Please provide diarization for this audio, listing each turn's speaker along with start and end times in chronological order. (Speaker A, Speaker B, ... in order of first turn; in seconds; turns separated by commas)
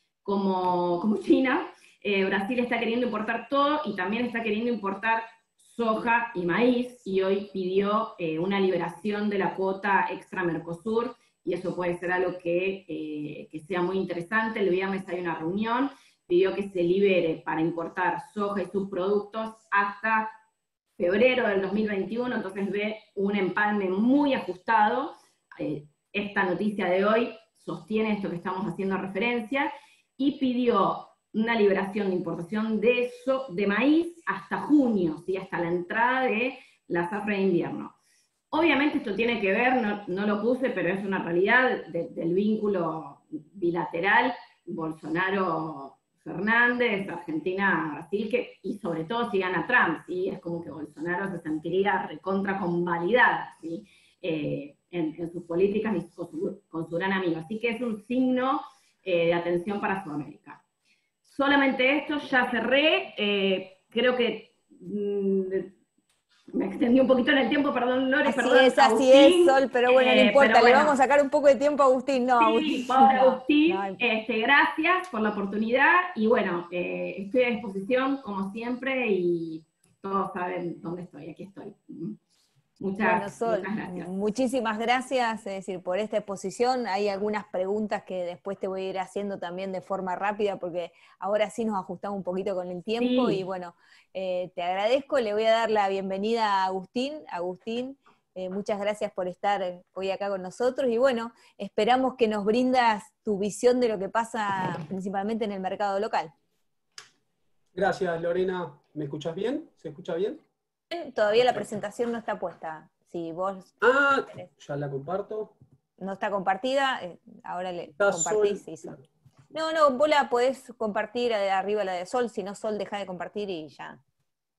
Speaker A: 0.2-20.3, Speaker A: 21.0-38.0, Speaker A: 38.5-60.6, Speaker A: 61.2-65.7, Speaker A: 66.5-71.0, Speaker B: 68.2-74.0, Speaker A: 72.4-82.2, Speaker A: 82.8-84.1, Speaker B: 83.0-106.3, Speaker A: 93.0-93.4, Speaker C: 107.7-110.4, Speaker B: 110.9-113.8, Speaker C: 113.8-115.5, Speaker B: 116.0-118.9, Speaker C: 118.0-119.0, Speaker B: 119.5-124.0